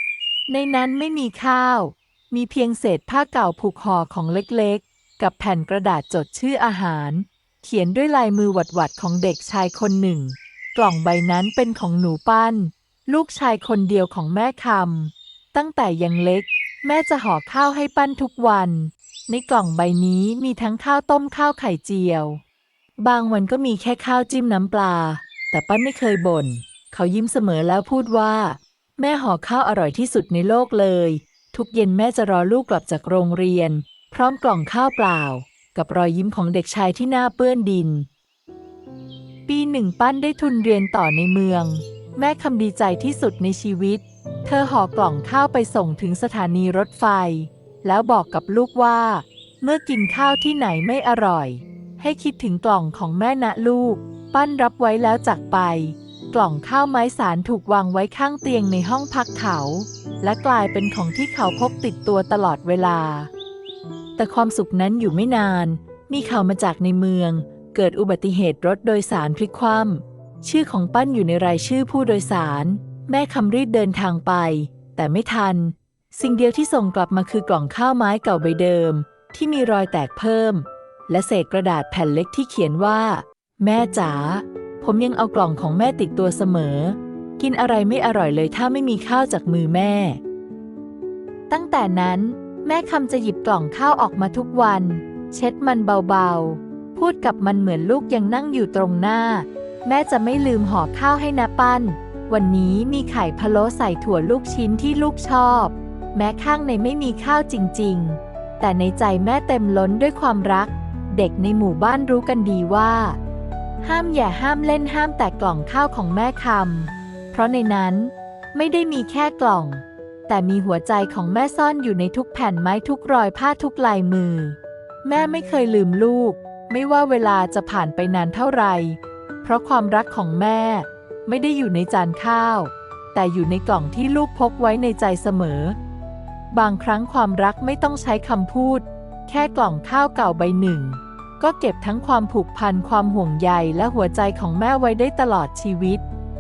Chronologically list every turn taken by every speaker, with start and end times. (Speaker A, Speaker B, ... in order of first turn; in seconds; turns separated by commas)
Speaker A: 0.5-22.4, Speaker A: 23.0-38.1, Speaker A: 39.5-63.3, Speaker A: 64.2-90.2, Speaker A: 91.5-113.2, Speaker A: 113.8-135.8, Speaker A: 136.5-146.0